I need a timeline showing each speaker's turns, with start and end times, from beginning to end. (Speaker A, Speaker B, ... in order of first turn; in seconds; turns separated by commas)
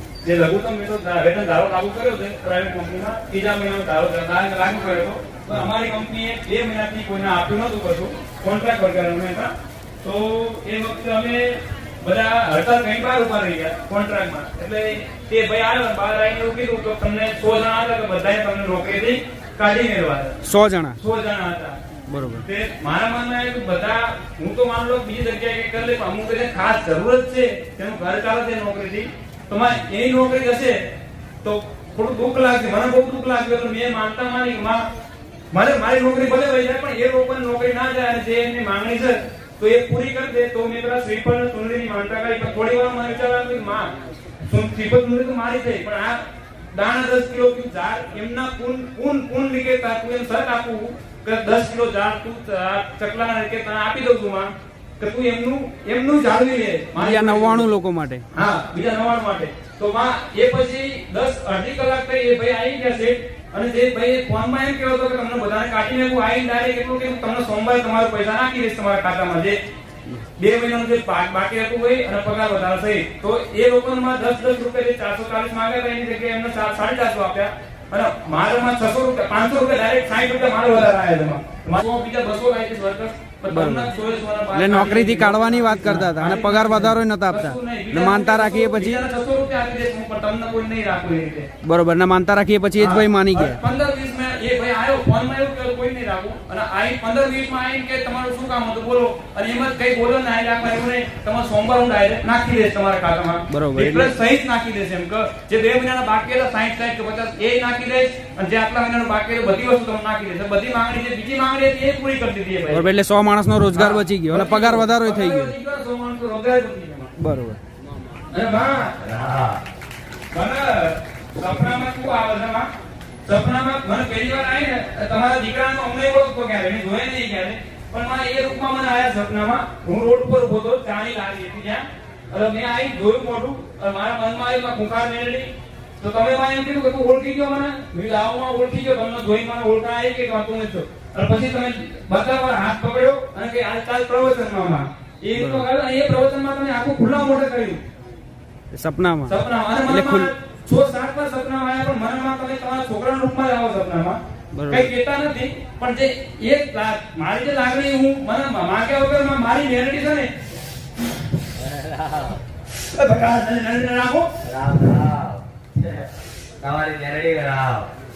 Speaker A: 0.2-20.4, Speaker B: 20.4-21.0, Speaker A: 21.0-21.8, Speaker B: 22.1-22.4, Speaker A: 22.4-30.8, Speaker A: 31.4-34.8, Speaker A: 35.5-43.9, Speaker A: 44.5-46.2, Speaker A: 46.7-57.6, Speaker B: 57.0-58.2, Speaker A: 58.3-69.6, Speaker A: 70.4-91.5, Speaker B: 83.5-83.9, Speaker B: 84.5-89.0, Speaker B: 91.6-93.6, Speaker A: 92.8-112.8, Speaker B: 103.5-104.1, Speaker B: 112.7-115.5, Speaker A: 113.7-117.1, Speaker B: 117.2-117.6, Speaker A: 118.3-118.9, Speaker C: 119.0-119.6, Speaker A: 120.3-122.7, Speaker A: 123.3-147.8, Speaker B: 145.3-145.7, Speaker B: 148.7-149.3, Speaker A: 149.3-154.2, Speaker B: 149.8-150.3, Speaker B: 154.5-154.9, Speaker A: 154.7-160.3, Speaker C: 161.6-162.3, Speaker A: 162.7-164.3, Speaker C: 164.4-166.1, Speaker C: 166.6-167.9